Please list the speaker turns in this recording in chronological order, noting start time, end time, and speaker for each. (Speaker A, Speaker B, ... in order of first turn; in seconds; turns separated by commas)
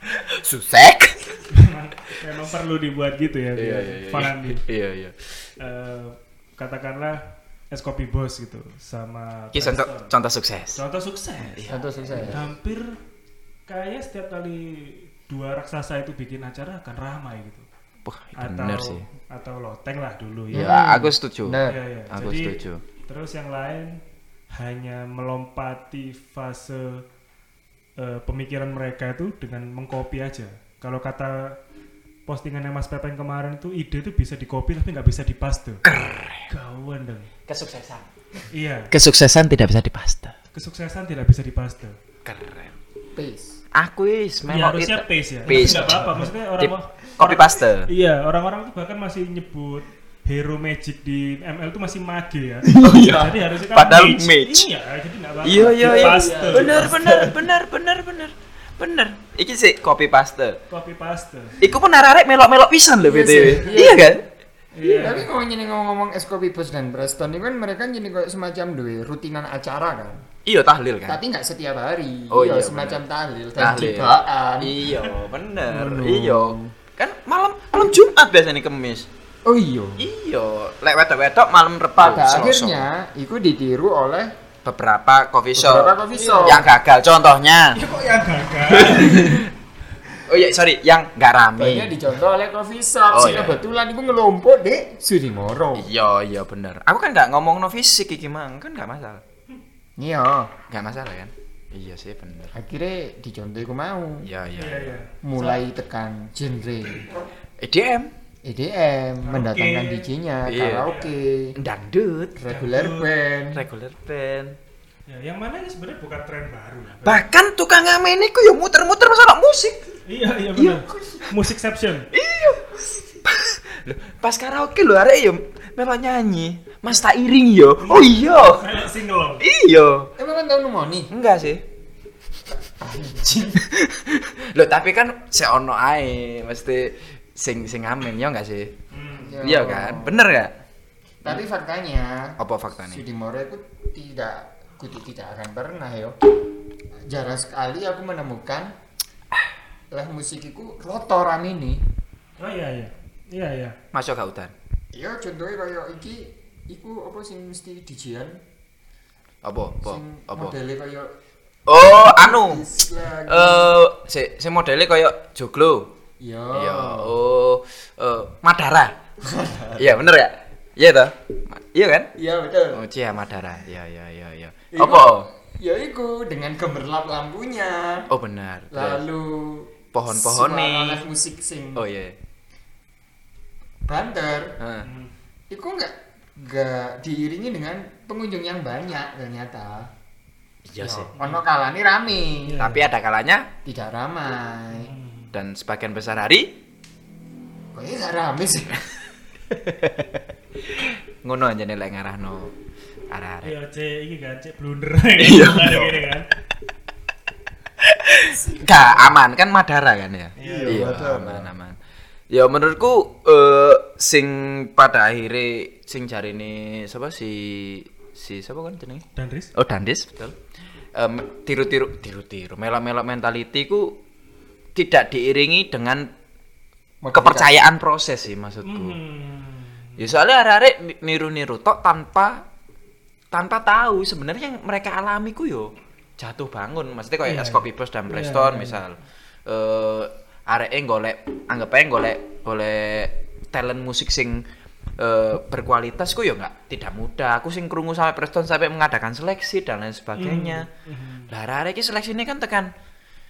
Speaker A: 0.1-1.4, Speaker B: 1.5-4.6, Speaker A: 3.6-5.2, Speaker B: 5.6-7.2, Speaker B: 7.7-10.1, Speaker A: 9.5-10.8, Speaker B: 10.8-11.6, Speaker A: 11.4-12.3, Speaker C: 11.7-12.5, Speaker B: 12.3-13.0, Speaker B: 13.7-17.7, Speaker A: 18.1-19.0, Speaker B: 18.4-20.8, Speaker C: 20.5-21.8, Speaker A: 20.5-22.8, Speaker B: 21.7-24.0, Speaker B: 24.5-27.0, Speaker B: 28.0-31.6, Speaker B: 32.3-35.8, Speaker A: 35.8-36.5, Speaker B: 36.5-37.3, Speaker A: 37.5-38.1, Speaker B: 38.5-38.9, Speaker A: 38.9-40.4, Speaker B: 40.5-42.0, Speaker A: 42.2-42.8, Speaker C: 43.1-43.6, Speaker A: 43.8-47.9, Speaker B: 44.5-56.9, Speaker C: 45.5-46.0, Speaker C: 52.7-53.3, Speaker A: 52.8-54.7, Speaker A: 55.4-60.6, Speaker C: 55.7-57.5, Speaker B: 60.7-61.6, Speaker A: 61.6-64.2, Speaker C: 63.0-64.1, Speaker B: 64.7-65.3, Speaker C: 64.8-70.2, Speaker A: 70.5-71.2, Speaker C: 71.1-74.9, Speaker A: 72.3-73.0, Speaker A: 73.6-79.1, Speaker C: 75.7-76.7, Speaker C: 79.5-80.1, Speaker A: 80.0-82.9, Speaker C: 82.0-84.3, Speaker A: 84.7-87.8, Speaker C: 85.5-86.7, Speaker B: 86.1-86.6, Speaker B: 87.8-89.5, Speaker A: 88.7-89.5, Speaker A: 90.2-92.0, Speaker C: 91.6-95.9, Speaker A: 93.1-93.6, Speaker A: 95.8-99.2, Speaker C: 100.0-100.5, Speaker A: 100.7-102.5, Speaker C: 102.5-104.3, Speaker A: 104.2-105.0, Speaker B: 104.6-105.6, Speaker C: 105.2-107.2, Speaker A: 107.6-108.1, Speaker C: 108.4-111.5, Speaker B: 109.2-110.1, Speaker A: 110.5-110.9, Speaker B: 110.8-111.1, Speaker A: 111.6-112.4, Speaker C: 112.4-113.6, Speaker B: 112.5-113.1, Speaker A: 113.5-114.6, Speaker B: 115.1-117.2, Speaker A: 117.0-119.8, Speaker B: 120.1-122.1, Speaker A: 120.6-121.3, Speaker A: 122.1-128.7, Speaker B: 127.8-129.4, Speaker A: 129.4-130.1, Speaker C: 130.2-131.1, Speaker A: 131.1-131.6, Speaker C: 132.6-133.6, Speaker A: 133.3-138.7, Speaker B: 138.9-139.4, Speaker C: 139.2-140.2, Speaker A: 139.4-140.5, Speaker C: 141.2-146.2, Speaker A: 142.4-143.0, Speaker C: 147.1-148.7, Speaker C: 149.9-151.8, Speaker B: 152.4-153.8, Speaker A: 153.9-154.5, Speaker C: 154.9-158.4, Speaker A: 159.4-160.6, Speaker C: 159.8-161.1, Speaker A: 161.7-162.6, Speaker C: 161.9-163.7, Speaker A: 163.3-165.9, Speaker C: 166.2-167.2, Speaker A: 166.5-168.9, Speaker C: 169.2-170.0, Speaker A: 169.8-172.1, Speaker C: 172.2-172.8, Speaker A: 172.7-175.3, Speaker C: 174.7-178.1, Speaker A: 178.1-179.0, Speaker C: 178.7-181.8, Speaker A: 179.9-181.1, Speaker A: 181.8-182.1, Speaker C: 183.9-184.6, Speaker A: 184.6-184.9, Speaker B: 184.8-185.1, Speaker C: 185.5-189.9, Speaker A: 190.7-191.1, Speaker C: 190.8-192.6, Speaker B: 191.2-191.4, Speaker B: 192.4-192.9, Speaker A: 192.6-193.5, Speaker C: 193.7-194.9, Speaker B: 194.7-195.3, Speaker A: 195.3-196.5, Speaker C: 197.7-198.8, Speaker A: 199.5-202.5, Speaker A: 203.1-203.5, Speaker B: 203.4-206.3, Speaker A: 205.2-206.0, Speaker A: 207.8-211.8, Speaker C: 208.5-209.0, Speaker B: 210.4-211.0, Speaker C: 210.4-211.5, Speaker A: 212.3-219.0, Speaker B: 219.2-219.5, Speaker A: 219.6-220.4, Speaker A: 221.0-223.9, Speaker A: 224.8-226.1, Speaker C: 227.0-227.6, Speaker A: 227.1-229.0, Speaker B: 228.7-230.0, Speaker A: 230.0-232.4, Speaker A: 233.3-244.4, Speaker B: 237.2-238.8, Speaker A: 245.0-250.7, Speaker B: 250.2-251.3, Speaker A: 251.3-252.7